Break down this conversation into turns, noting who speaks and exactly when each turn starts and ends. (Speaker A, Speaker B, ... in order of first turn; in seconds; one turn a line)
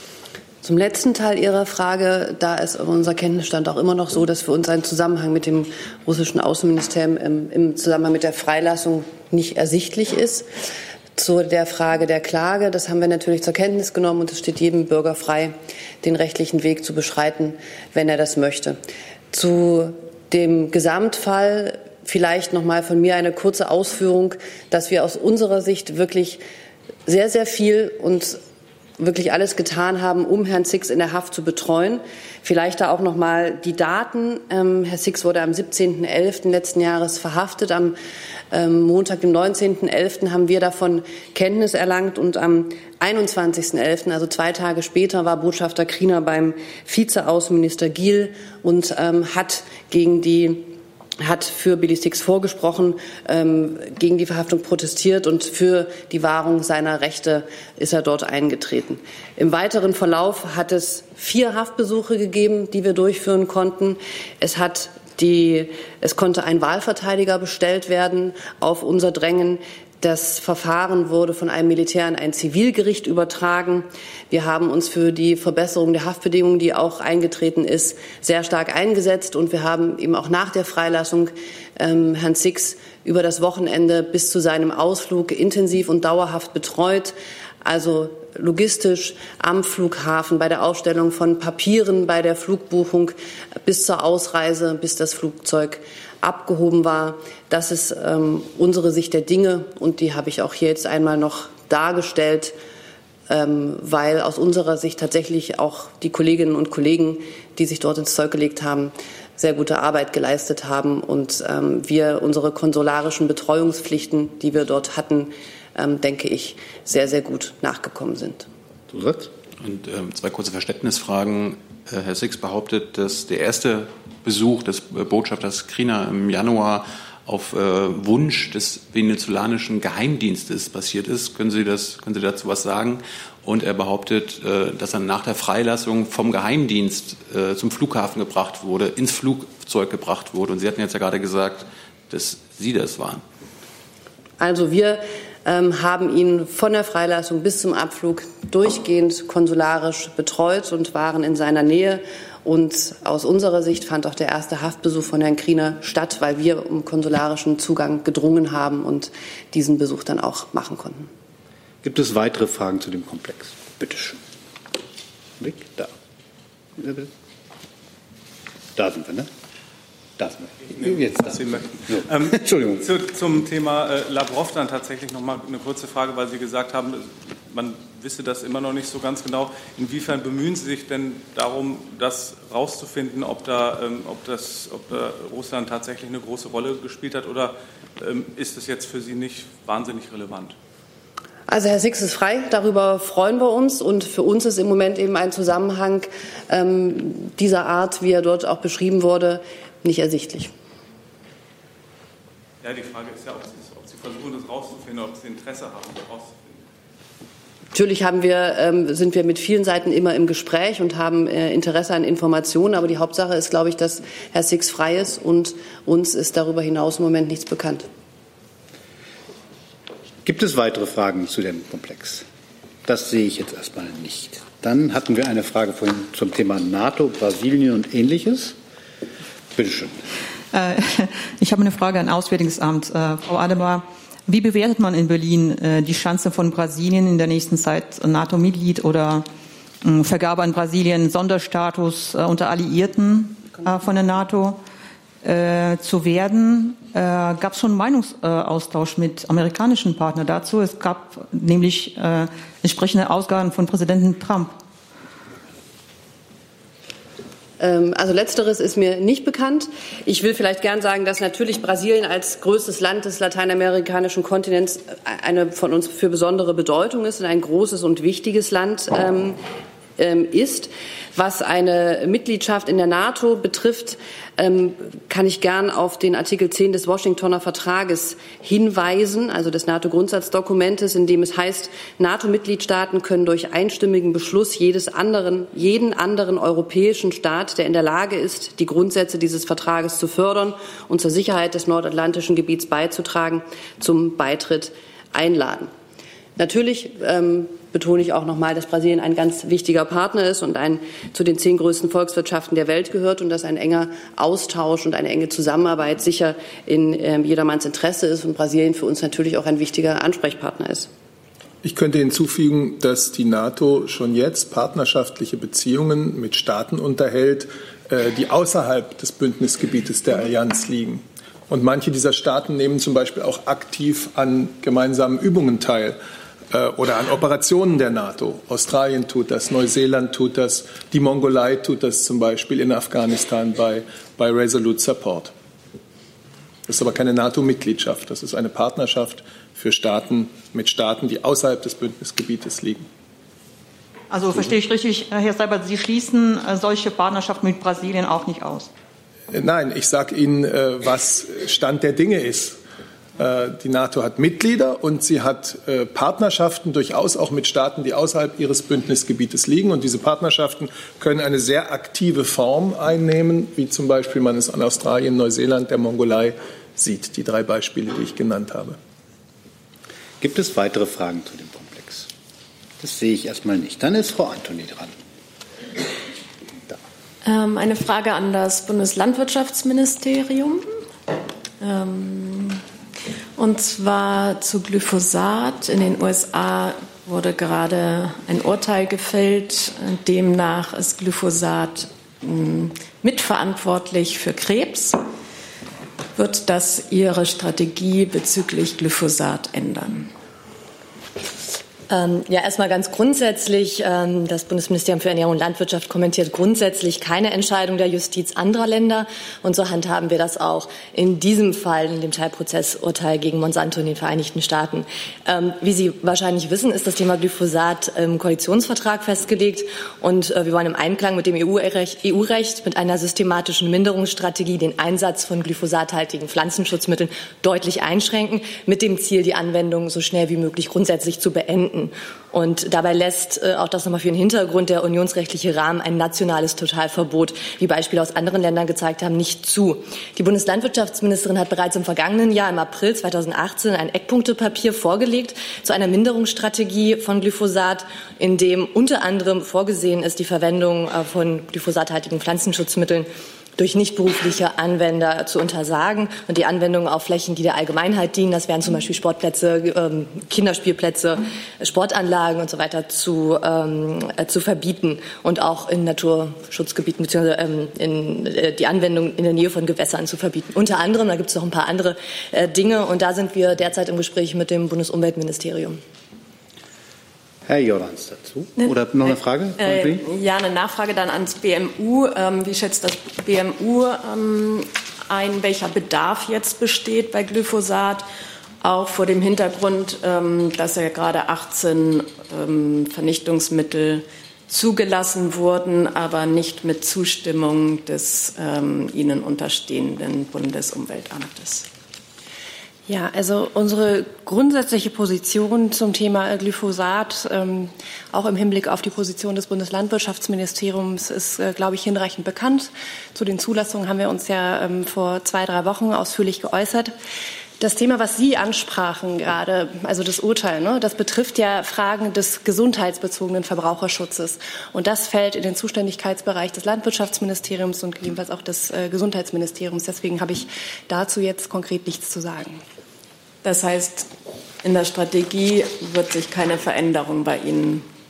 Speaker A: 0.6-10.5
Speaker A: 11.2-18.8
Speaker A: 19.3-26.4
Speaker A: 27.1-28.4
Speaker A: 29.0-38.0
Speaker A: 38.5-102.5
Speaker A: 103.3-118.5
Speaker B: 118.9-119.3
Speaker C: 119.6-143.2
Speaker A: 144.4-161.1
Speaker B: 161.8-164.2
Speaker B: 165.4-165.9
Speaker B: 166.8-167.1
Speaker B: 168.7-169.3
Speaker B: 170.2-172.9
Speaker D: 170.7-190.5
Speaker A: 191.5-200.5
Speaker D: 202.6-206.6
Speaker A: 207.7-217.8
Speaker B: 220.2-222.2
Speaker B: 222.8-228.6
Speaker B: 229.5-230.0
Speaker E: 230.5-239.3
Speaker E: 239.8-244.6
Speaker E: 245.2-254.5
Speaker A: 257.6-269.4
Speaker A: 270.0-295.7
Speaker A: 296.4-310.9
Speaker F: 311.6-326.0
Speaker F: 326.5-335.3
Speaker F: 336.7-342.8
Speaker E: 344.1-348.7
Speaker F: 349.3-352.6
Speaker F: 353.2-368.8
Speaker B: 370.2-372.1
Speaker B: 372.8-374.9
Speaker G: 377.3-380.6
Speaker G: 381.6-382.6
Speaker G: 383.4-394.9
Speaker G: 396.2-400.1
Speaker H: 401.9-475.8
Speaker B: 477.4-480.0
Speaker G: 479.6-484.6
Speaker G: 485.1-488.0
Speaker G: 488.6-501.6
Speaker I: 502.9-516.9
Speaker I: 517.6-532.6
Speaker G: 533.4-534.1
Speaker G: 534.6-537.9